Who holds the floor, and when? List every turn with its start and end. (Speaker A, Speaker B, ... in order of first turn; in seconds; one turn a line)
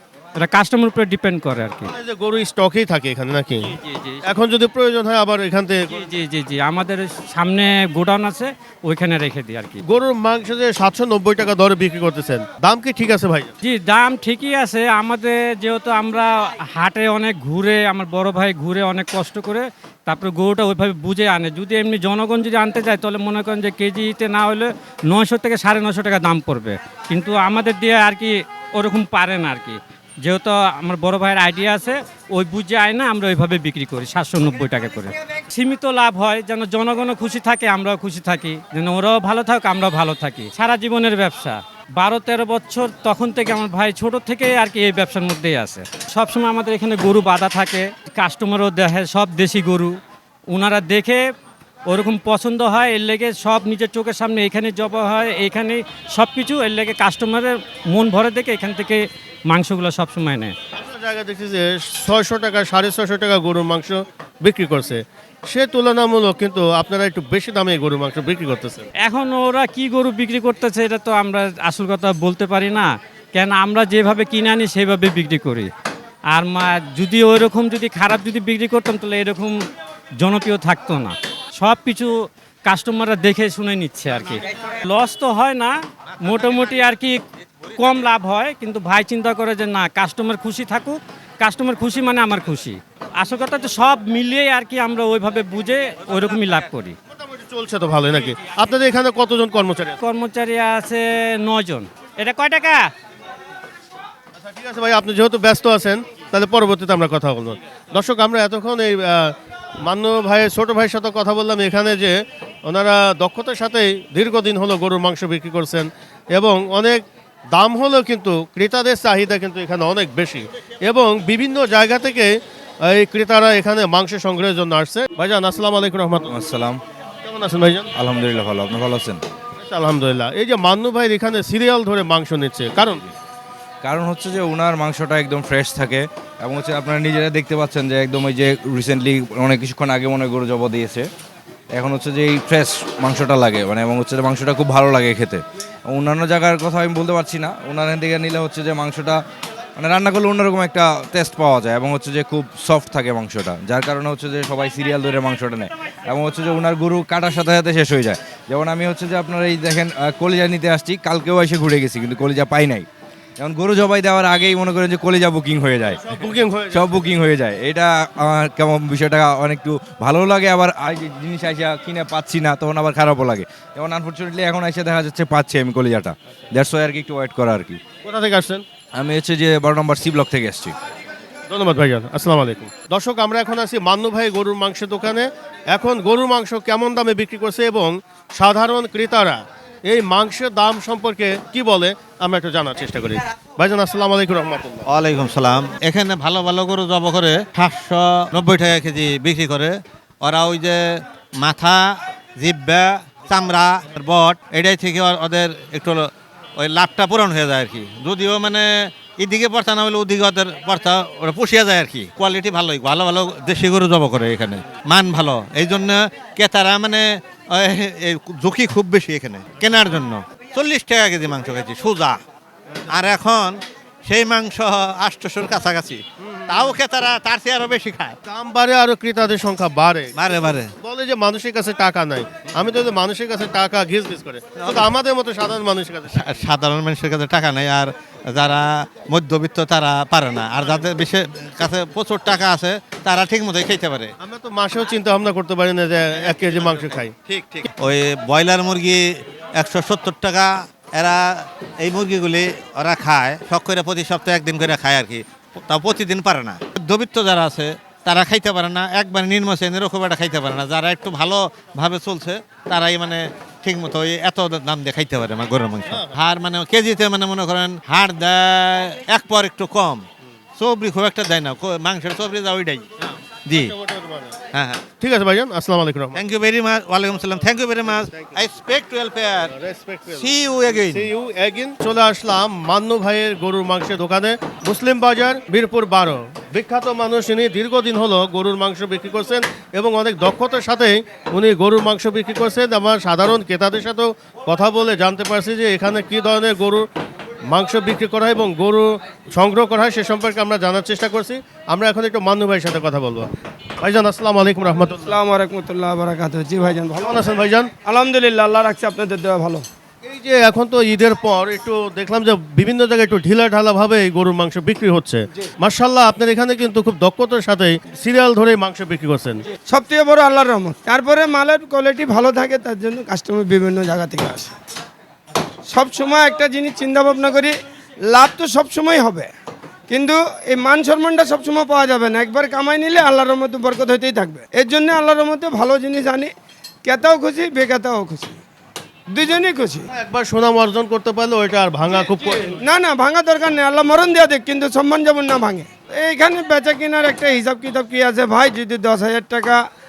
Speaker A: 0.4-1.9
Speaker B: 1.9-6.0
Speaker A: 3.8-4.2
Speaker A: 5.9-9.8
Speaker B: 9.8-13.5
Speaker A: 13.6-50.0
Speaker A: 50.5-51.2
Speaker A: 51.9-60.5
Speaker B: 60.8-68.9
Speaker A: 69.0-75.7
Speaker A: 76.3-79.6
Speaker A: 80.2-87.2
Speaker A: 87.7-96.9
Speaker B: 97.1-100.0
Speaker A: 100.0-102.9
Speaker B: 104.4-126.3
Speaker C: 126.3-126.8
Speaker B: 127.2-127.9
Speaker C: 128.0-129.2
Speaker B: 129.6-133.1
Speaker C: 133.8-141.1
Speaker C: 141.7-149.2
Speaker C: 149.8-162.8
Speaker C: 163.4-166.0
Speaker B: 165.9-167.0
Speaker C: 166.7-177.8
Speaker B: 178.0-178.6
Speaker C: 179.0-180.7
Speaker B: 181.5-194.8
Speaker D: 194.9-222.2
Speaker D: 222.9-228.2
Speaker B: 228.2-236.4
Speaker D: 230.1-230.7
Speaker D: 236.1-244.1
Speaker B: 244.2-247.2
Speaker D: 246.4-249.1
Speaker D: 249.6-270.0
Speaker D: 270.6-272.8
Speaker D: 273.5-273.7
Speaker B: 273.6-274.4
Speaker D: 274.5-274.8
Speaker B: 275.0-276.2
Speaker D: 276.1-279.5
Speaker B: 278.1-278.4
Speaker B: 279.4-296.9
Speaker D: 280.1-281.1
Speaker B: 297.5-305.1
Speaker E: 305.1-307.3
Speaker B: 307.0-307.7
Speaker E: 307.8-309.6
Speaker B: 310.0-319.4
Speaker E: 319.7-324.5
Speaker E: 325.7-327.5
Speaker E: 328.1-329.3
Speaker E: 329.9-336.3
Speaker E: 336.8-338.4
Speaker E: 339.1-339.9
Speaker B: 339.9-342.6
Speaker E: 342.5-349.6